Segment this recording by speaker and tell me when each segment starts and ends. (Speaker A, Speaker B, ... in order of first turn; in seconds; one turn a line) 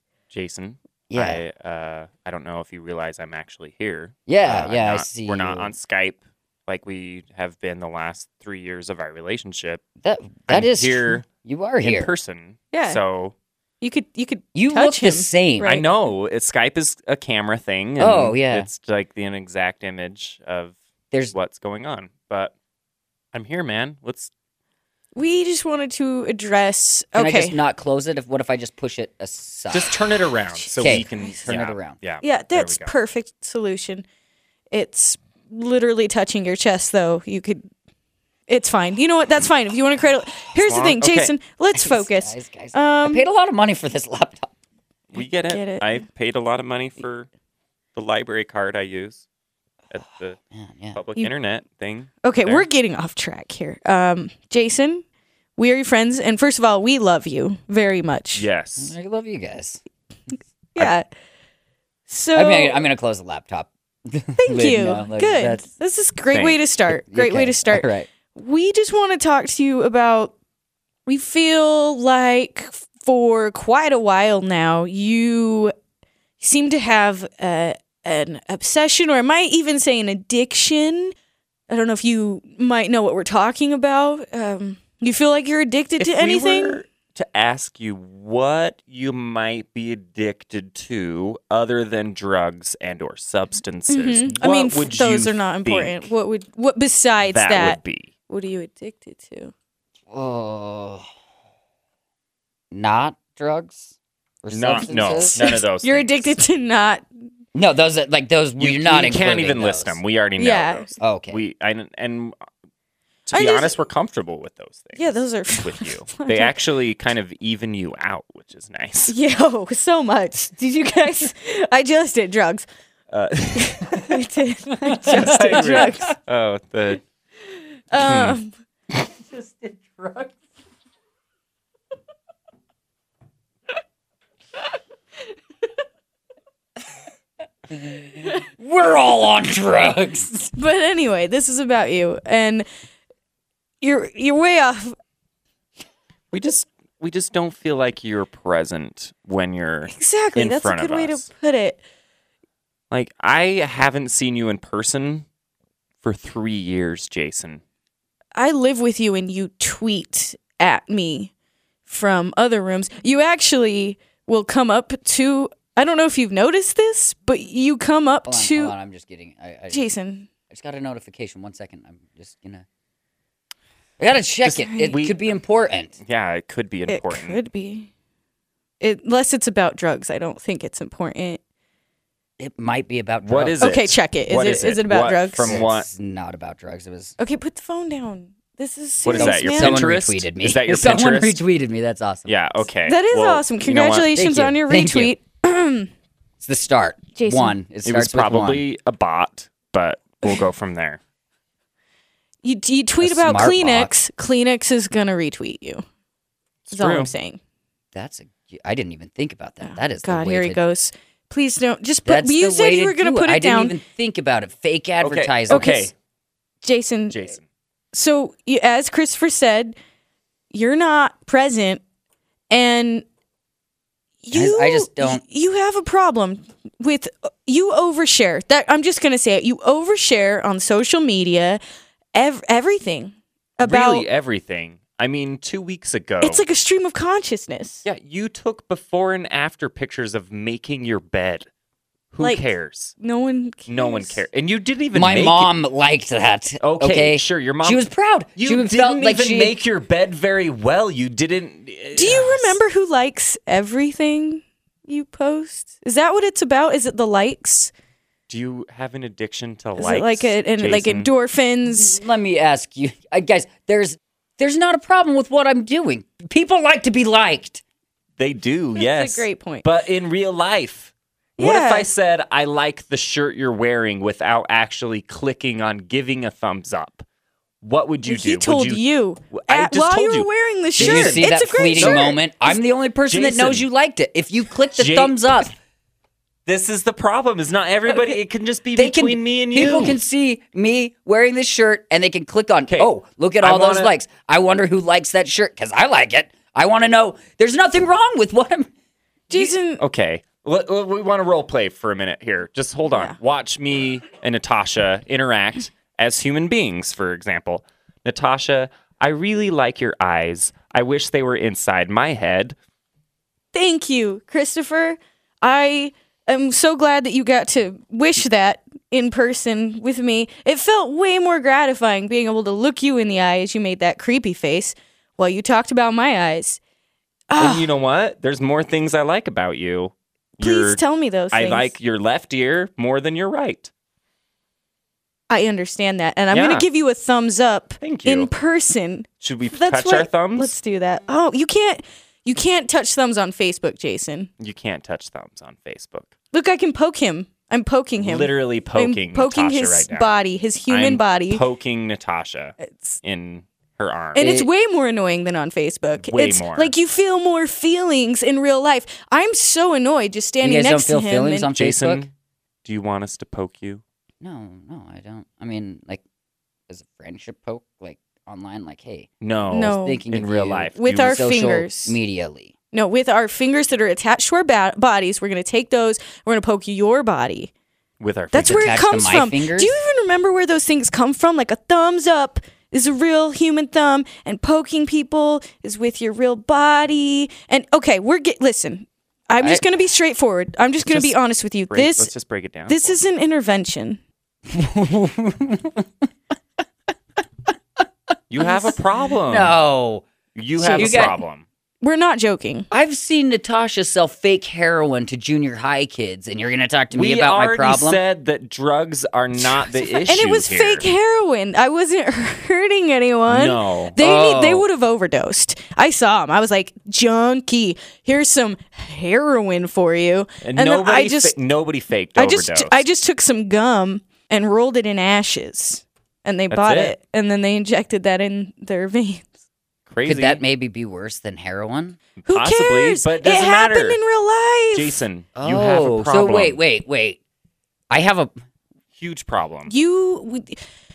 Speaker A: 0.3-9.8
Speaker B: 1.1-1.4
Speaker B: 4.3-5.7
Speaker B: 10.0-12.1
Speaker A: 10.5-11.3
Speaker A: 11.8-13.3
Speaker C: 12.7-13.0
Speaker C: 13.8-15.8
Speaker B: 14.6-15.7
Speaker A: 15.6-20.8
Speaker B: 18.0-18.7
Speaker A: 21.3-22.5
Speaker A: 23.3-24.3
Speaker C: 25.2-27.6
Speaker B: 27.2-30.0
Speaker A: 29.7-32.9
Speaker C: 30.6-31.6
Speaker B: 30.8-32.0
Speaker C: 32.2-34.0
Speaker C: 34.7-37.7
Speaker C: 38.5-43.2
Speaker A: 40.5-41.4
Speaker B: 41.8-44.5
Speaker A: 45.1-47.3
Speaker C: 45.2-46.0
Speaker A: 48.0-49.2
Speaker A: 49.9-50.4
Speaker B: 50.5-51.0
Speaker A: 50.9-52.7
Speaker C: 52.2-55.0
Speaker C: 55.6-58.5
Speaker A: 58.4-59.0
Speaker B: 58.8-59.8
Speaker C: 60.8-61.1
Speaker C: 62.1-62.9
Speaker B: 62.4-65.7
Speaker C: 64.4-70.3
Speaker A: 66.3-66.6
Speaker B: 66.9-68.1
Speaker C: 71.1-75.7
Speaker C: 76.4-81.1
Speaker C: 81.7-86.8
Speaker A: 86.0-96.1
Speaker C: 93.9-99.5
Speaker A: 97.2-98.1
Speaker B: 100.1-101.0
Speaker B: 102.7-105.3
Speaker A: 104.5-106.4
Speaker C: 104.8-107.1
Speaker B: 107.5-110.0
Speaker A: 108.6-112.4
Speaker C: 110.4-110.9
Speaker B: 111.0-111.4
Speaker A: 113.3-119.2
Speaker C: 113.3-113.7
Speaker C: 115.0-116.5
Speaker C: 119.1-122.7
Speaker A: 123.1-124.2
Speaker C: 123.9-126.1
Speaker B: 124.9-126.1
Speaker A: 125.0-127.0
Speaker C: 127.9-128.5
Speaker A: 128.0-128.4
Speaker B: 129.3-130.3
Speaker B: 137.7-140.5
Speaker C: 140.5-142.7
Speaker C: 143.8-144.9
Speaker A: 146.3-151.3
Speaker C: 149.9-151.8
Speaker A: 152.9-155.3
Speaker A: 156.0-157.6
Speaker C: 158.4-161.3
Speaker C: 161.9-168.7
Speaker B: 168.3-169.9
Speaker C: 169.7-170.3
Speaker B: 170.5-172.7
Speaker B: 174.0-175.9
Speaker A: 174.4-175.3
Speaker C: 174.7-174.9
Speaker A: 176.0-177.4
Speaker C: 176.9-177.9
Speaker C: 178.8-181.4
Speaker B: 182.4-183.7
Speaker A: 183.2-185.9
Speaker C: 183.6-185.6
Speaker B: 185.4-187.2
Speaker C: 187.2-189.9
Speaker A: 189.0-191.4
Speaker B: 189.1-192.3
Speaker A: 192.3-194.2
Speaker C: 192.9-195.9
Speaker B: 194.1-195.1
Speaker B: 196.4-198.6
Speaker C: 197.2-197.6
Speaker A: 197.8-201.0
Speaker C: 202.4-205.8
Speaker B: 203.0-203.9
Speaker A: 206.7-207.1
Speaker C: 206.7-207.4
Speaker B: 207.9-210.6
Speaker C: 209.6-213.8
Speaker B: 212.1-215.8
Speaker A: 215.0-215.9
Speaker C: 215.5-215.9
Speaker C: 216.6-217.3
Speaker A: 217.1-217.4
Speaker C: 217.9-219.8
Speaker C: 220.5-221.8
Speaker C: 222.5-223.1
Speaker C: 224.2-231.6
Speaker B: 224.3-225.2
Speaker C: 232.2-234.1
Speaker A: 233.6-236.4
Speaker C: 236.2-237.8
Speaker A: 237.8-241.5
Speaker A: 242.1-242.9
Speaker C: 243.0-244.2
Speaker A: 243.7-245.5
Speaker B: 244.9-249.6
Speaker A: 246.6-247.8
Speaker A: 248.4-252.6
Speaker C: 251.9-257.7
Speaker A: 258.3-261.1
Speaker C: 259.8-262.0
Speaker B: 261.7-267.6
Speaker A: 268.2-277.1
Speaker C: 268.8-269.7
Speaker C: 271.4-271.9
Speaker A: 277.6-282.1
Speaker C: 278.1-282.2
Speaker B: 280.8-285.5
Speaker A: 283.1-283.7
Speaker A: 284.7-285.5
Speaker A: 286.5-290.0
Speaker B: 287.9-288.2
Speaker B: 288.8-298.7
Speaker A: 292.7-293.9
Speaker C: 299.3-299.8
Speaker A: 299.3-312.6
Speaker C: 302.9-303.2
Speaker C: 313.5-326.6
Speaker C: 327.3-327.7
Speaker A: 327.4-330.8
Speaker C: 330.4-331.7
Speaker A: 331.3-333.7
Speaker C: 335.3-344.3
Speaker A: 336.3-336.6
Speaker A: 337.8-338.3
Speaker A: 339.2-340.6
Speaker A: 344.4-346.1
Speaker C: 346.3-351.4
Speaker A: 348.0-350.1
Speaker A: 350.7-354.2
Speaker C: 354.1-361.5
Speaker B: 354.2-354.5
Speaker A: 356.0-356.7
Speaker B: 360.4-362.1
Speaker A: 361.5-362.1
Speaker A: 362.6-363.8
Speaker B: 364.2-366.0
Speaker B: 366.7-369.1
Speaker A: 369.2-371.3
Speaker C: 369.5-370.1
Speaker B: 369.7-372.5
Speaker C: 370.8-372.0
Speaker C: 372.7-377.5
Speaker A: 378.0-378.7
Speaker C: 378.3-392.1
Speaker B: 378.4-379.7
Speaker A: 390.9-391.2
Speaker A: 391.7-393.0
Speaker C: 392.7-394.0
Speaker B: 394.5-396.1
Speaker A: 398.3-399.6
Speaker C: 398.4-398.8
Speaker B: 399.3-400.1
Speaker A: 400.4-401.4
Speaker C: 400.6-401.2
Speaker B: 400.7-401.2
Speaker C: 401.8-402.7
Speaker B: 402.7-408.0
Speaker A: 406.9-410.9
Speaker C: 409.7-421.4
Speaker A: 413.3-414.0
Speaker B: 414.0-414.6
Speaker A: 420.4-422.8
Speaker C: 422.2-429.3
Speaker A: 426.5-426.9
Speaker A: 429.9-430.4
Speaker B: 430.1-432.0
Speaker A: 432.2-434.0
Speaker C: 432.3-435.0
Speaker A: 434.7-436.6
Speaker B: 435.4-437.2
Speaker B: 437.9-438.3
Speaker A: 439.0-439.8
Speaker C: 439.7-440.6